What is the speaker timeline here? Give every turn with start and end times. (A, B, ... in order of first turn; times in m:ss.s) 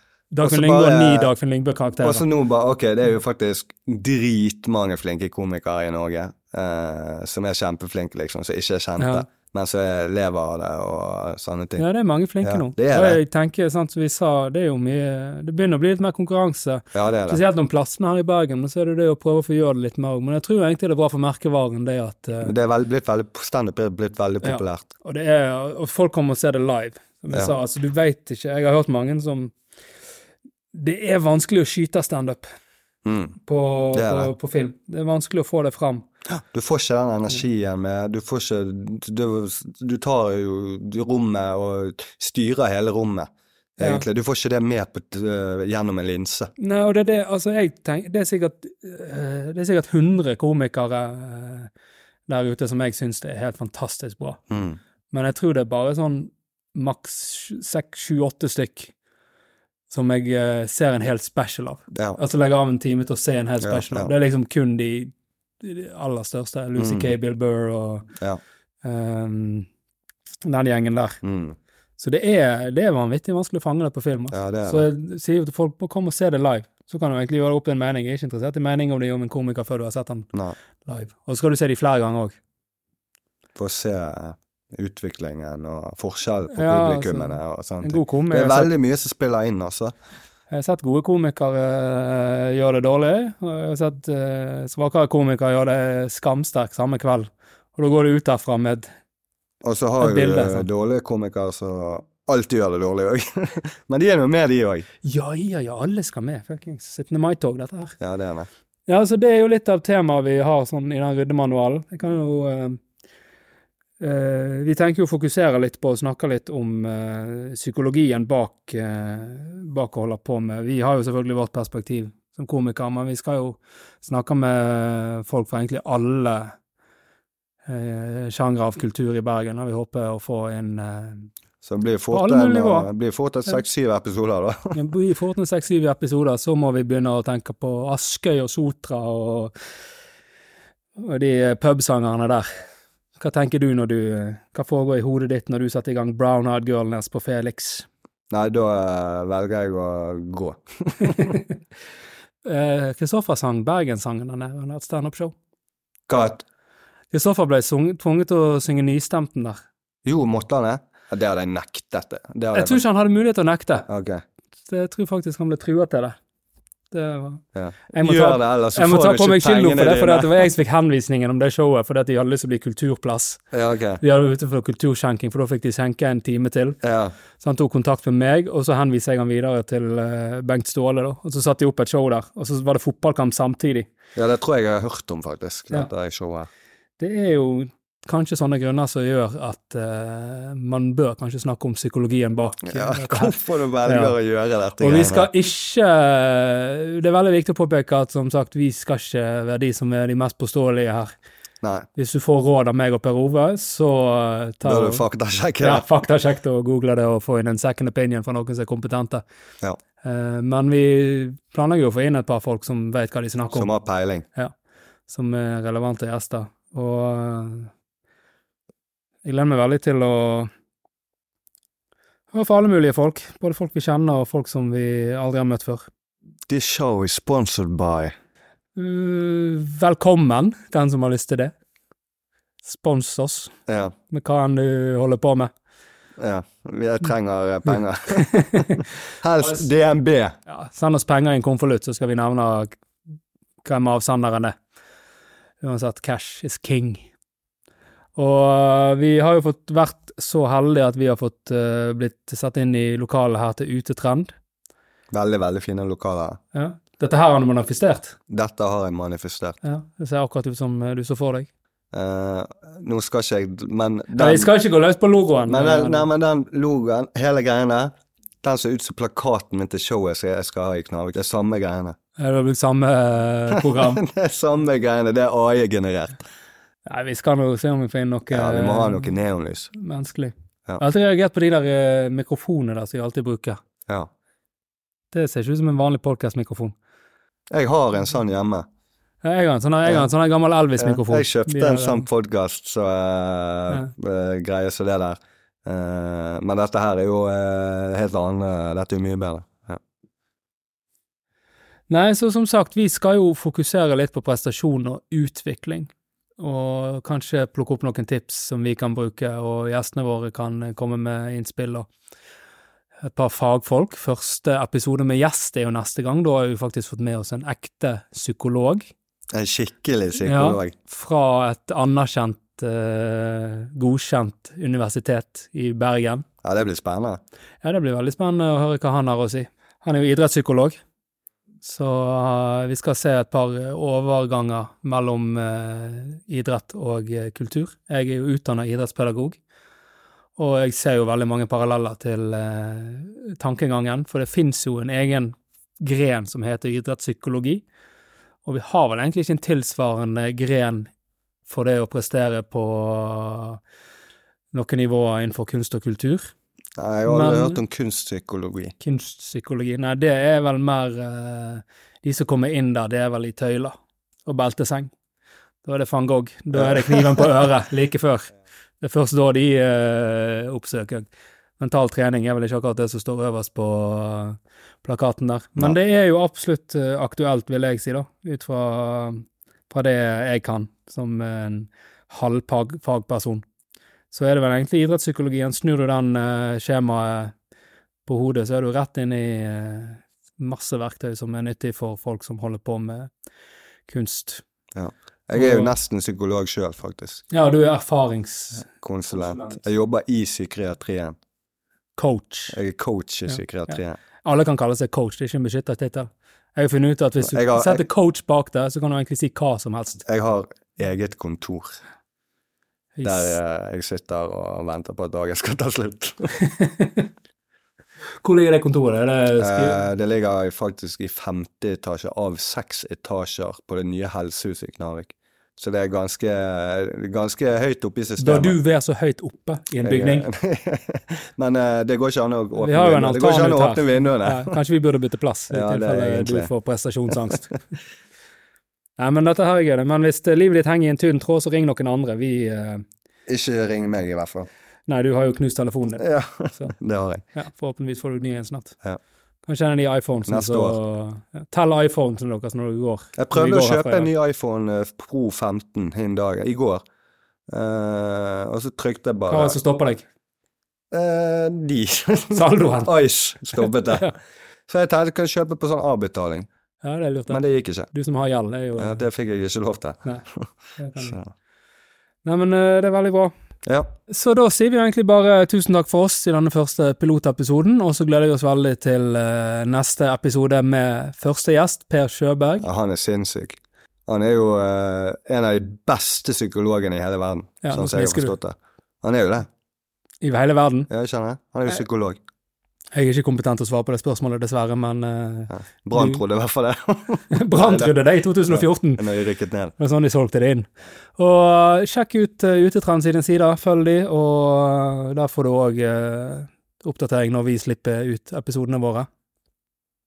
0:00.3-0:02.2 A
0:00.4-0:01.3 B
0:02.0-0:11.8 B
0:09.0-0:09.2 A
0:11.8-0:22.5 A
0:12.4-0:13.2 B
0:16.9-0:17.4 B
0:22.4-0:24.8 B
0:24.4-0:29.5 A
0:30.7-0:32.4 A
0:33.0-0:33.4 B
0:33.4-0:36.0 A
0:33.9-0:34.3 B
0:36.3-0:46.5 B
0:46.6-0:51.7 A
0:52.3-0:54.4 A
0:54.5-0:54.8 B
0:55.1-0:58.9 A
0:59.9-1:08.1 A
1:01.9-1:02.2 B
1:03.6-1:04.1 B
1:06.8-1:07.1 B
1:08.8-1:09.7 A
1:10.4-1:11.2 A
1:11.2-1:11.6 B
1:12.0-1:20.3 A
1:14.3-1:14.8 B
1:20.8-1:22.4 A
1:23.6-1:29.9 B
1:26.5-1:28.7 A
1:30.5-1:38.9 A
1:39.6-1:44.8 B
1:40.0-1:40.7 A
1:45.0-1:48.0 A
1:48.0-1:48.5 B
1:48.9-1:52.8 A
1:54.0-2:06.5 A
2:07.7-2:11.3 A
2:11.6-2:14.8 B
2:12.1-2:12.9 A
2:14.7-2:19.5 A
2:21.0-2:22.6 A
2:23.2-2:27.9 A
2:28.3-2:31.4 B
2:31.0-2:31.4 A
2:32.4-2:35.3 A
2:36.1-2:36.4 B
2:37.1-2:39.6 A
2:40.0-2:42.8 B
2:42.5-2:43.9 A
2:43.9-2:44.2 B
2:44.7-2:46.2 A
2:46.9-2:53.4 A
2:47.5-2:50.4 B
2:53.5-2:54.0 B
2:54.0-2:56.8 A
2:56.8-2:57.1 B
2:57.4-3:03.9 A
3:04.1-3:06.5 B
3:07.0-3:14.1 A
3:12.6-3:15.3 B
3:14.8-3:21.1 A
3:21.6-3:21.9 B
3:22.0-3:25.0 A
3:24.6-3:25.8 B
3:25.6-3:29.2 A
3:30.0-3:33.7 A
3:33.5-3:34.2 B
3:35.1-3:37.7 A
3:39.2-3:40.5 A
3:42.3-3:45.9 A
3:46.5-3:48.1 B
3:48.8-3:51.5 A
3:52.6-3:53.5 A
3:53.7-3:53.9 B
3:54.1-3:55.5 A
3:56.2-4:00.4 B
3:58.1-3:58.8 A
4:00.5-4:02.7 A
4:03.6-4:04.5 A
4:05.6-4:07.1 A
4:08.2-4:14.3 A
4:15.1-4:16.4 B
4:16.5-4:18.2 A
4:18.3-4:19.6 B
4:19.6-4:21.5 A
4:21.9-4:24.5 B
4:24.2-4:26.1 A
4:25.5-4:32.0 B
4:32.2-4:34.0 A
4:33.5-4:36.2 B
4:36.8-4:39.1 A
4:38.3-4:39.7 B
4:39.7-4:43.6 A
4:45.1-4:46.7 A
4:47.5-4:48.6 B
4:49.2-4:52.0 A
4:50.8-4:59.8 B
5:01.9-5:11.9 A
5:13.0-5:18.9 A
5:19.3-5:20.7 B
5:20.2-5:26.2 A
5:26.4-5:27.2 B
5:27.6-5:30.8 A
5:31.6-5:39.4 A
5:40.4-5:47.6 A
5:48.4-5:50.9 A
5:51.5-5:53.6 A
5:54.5-5:56.3 A
5:56.8-5:58.7 B
5:57.1-5:57.6 A
5:58.8-6:03.7 A
6:04.2-6:04.9 A
6:05.6-6:11.1 A
6:06.5-6:07.3 B
6:11.6-6:23.4 A
6:24.1-6:27.3 A
6:28.0-6:33.1 A
6:33.9-6:34.4 A
6:34.7-6:37.2 B
6:35.3-6:35.7 A
6:37.3-6:38.7 A
6:38.7-6:41.2 B
6:39.3-6:39.6 A
6:42.0-6:42.6 A
6:42.5-6:44.0 B
6:43.3-6:50.0 A
6:47.2-6:47.8 B
6:50.0-6:51.8 B
6:53.0-6:53.4 A
6:53.0-6:56.4 B
6:56.4-6:57.1 A
6:58.2-6:59.8 A
6:59.4-7:08.6 B
7:08.2-7:10.3 A
7:09.8-7:14.5 B
7:12.6-7:17.5 A
7:15.5-7:16.5 B
7:19.0-7:22.8 A
7:23.3-7:24.5 B
7:24.9-7:26.7 A
7:26.0-7:27.2 B
7:27.3-7:28.8 A
7:29.4-7:34.1 A
7:30.2-7:30.8 B
7:33.2-7:36.8 B
7:37.5-7:39.6 B
7:39.3-7:40.0 A
7:40.9-7:44.1 B
7:42.3-7:42.9 A
7:43.5-7:44.1 A
7:44.7-7:46.5 B
7:46.8-7:47.4 A
7:47.3-7:47.9 B
7:47.9-7:49.0 A
7:48.8-7:50.5 B
7:50.8-7:51.2 A
7:51.0-7:51.3 B
7:52.2-7:53.3 A
7:53.6-7:53.9 B
7:54.1-8:02.7 A
8:02.6-8:09.5 B
8:07.6-8:08.3 A
8:10.2-8:10.9 A
8:10.9-8:12.2 B
8:12.9-8:16.2 A
8:15.5-8:17.9 B
8:17.3-8:19.0 A
8:18.5-8:19.7 B
8:19.8-8:29.1 A